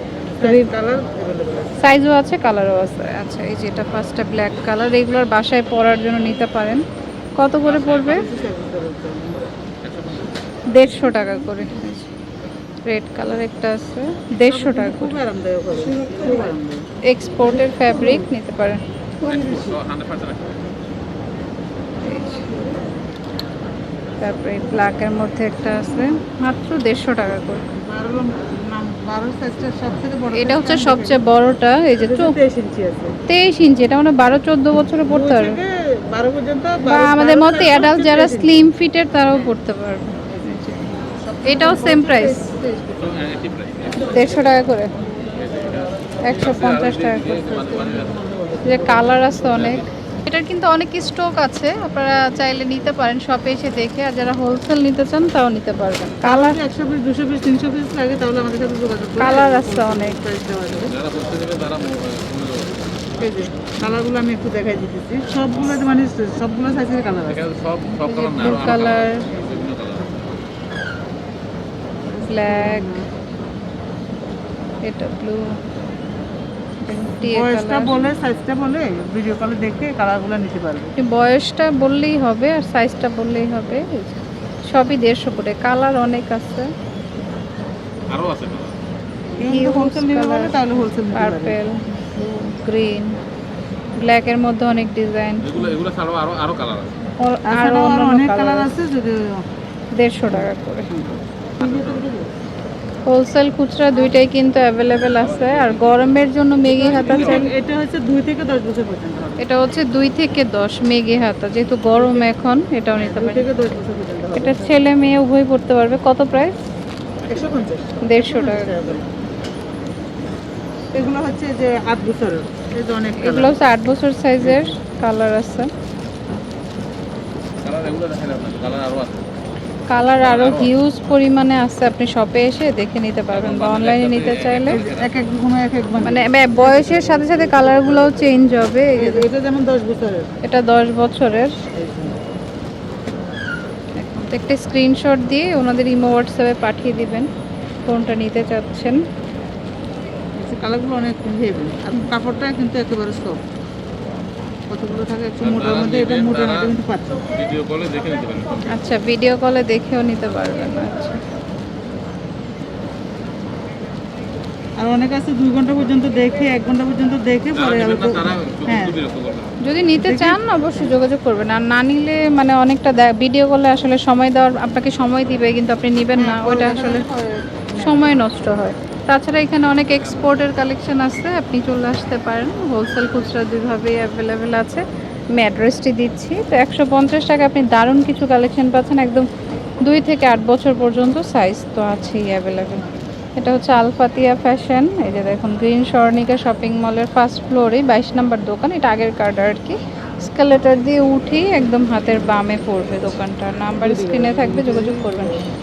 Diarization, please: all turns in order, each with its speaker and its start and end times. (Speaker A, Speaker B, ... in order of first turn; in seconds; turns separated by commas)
Speaker A: 0.4-1.8, Speaker B: 0.4-0.7, Speaker B: 1.8-6.8, Speaker B: 7.4-8.3, Speaker C: 7.6-8.6, Speaker A: 8.1-9.4, Speaker C: 9.8-10.3, Speaker B: 10.7-12.1, Speaker B: 12.9-15.2, Speaker A: 14.4-16.9, Speaker B: 17.1-18.8, Speaker A: 17.9-18.1, Speaker C: 19.2-20.6, Speaker B: 22.0-22.5, Speaker B: 24.2-27.6, Speaker A: 25.7-26.1, Speaker A: 27.9-31.2, Speaker B: 30.3-32.4, Speaker A: 32.0-33.1, Speaker B: 33.3-35.6, Speaker A: 35.1-38.6, Speaker B: 36.9-40.9, Speaker A: 41.3-43.1, Speaker B: 41.5-42.5, Speaker C: 43.0-44.5, Speaker B: 44.0-44.9, Speaker C: 45.4-48.2, Speaker B: 46.2-47.4, Speaker A: 47.4-49.8, Speaker B: 48.6-56.6, Speaker A: 56.2-60.9, Speaker B: 59.2-60.2, Speaker C: 60.8-62.7, Speaker A: 63.2-67.4, Speaker C: 67.3-70.3, Speaker B: 68.0-69.2, Speaker A: 68.4-69.7, Speaker A: 72.1-73.0, Speaker B: 72.2-72.9, Speaker B: 74.8-75.4, Speaker B: 76.8-78.2, Speaker A: 77.2-80.9, Speaker B: 81.0-84.2, Speaker B: 84.7-86.7, Speaker C: 88.1-88.8, Speaker A: 89.4-91.6, Speaker B: 89.5-93.2, Speaker B: 94.0-95.6, Speaker C: 95.4-97.0, Speaker A: 97.2-99.3, Speaker B: 97.5-98.7, Speaker B: 100.0-100.9, Speaker A: 100.3-102.3, Speaker C: 101.6-102.1, Speaker B: 103.1-107.5, Speaker A: 103.9-104.2, Speaker C: 105.1-106.2, Speaker A: 106.7-109.5, Speaker C: 106.8-107.5, Speaker B: 109.4-113.5, Speaker A: 111.9-112.3, Speaker A: 113.0-114.7, Speaker B: 114.4-116.5, Speaker C: 117.2-117.5, Speaker A: 117.3-119.1, Speaker B: 118.0-119.0, Speaker A: 120.9-123.6, Speaker B: 123.2-125.7, Speaker A: 124.4-124.8, Speaker C: 127.6-129.2, Speaker B: 129.9-134.8, Speaker C: 130.2-130.7, Speaker C: 133.3-135.2, Speaker A: 134.7-138.4, Speaker B: 136.0-139.3, Speaker A: 139.0-140.3, Speaker B: 140.4-141.5, Speaker A: 141.7-142.2, Speaker B: 144.0-147.3, Speaker B: 147.9-149.0, Speaker A: 150.4-153.4, Speaker A: 154.7-157.3, Speaker C: 155.4-156.8, Speaker C: 157.3-158.7, Speaker B: 158.7-161.2, Speaker A: 164.8-168.9, Speaker C: 167.5-169.6, Speaker B: 169.6-177.0, Speaker A: 170.0-171.0, Speaker A: 176.2-178.2, Speaker B: 177.8-189.3, Speaker C: 179.8-180.4, Speaker B: 189.8-192.8, Speaker B: 193.4-205.4, Speaker A: 203.8-205.5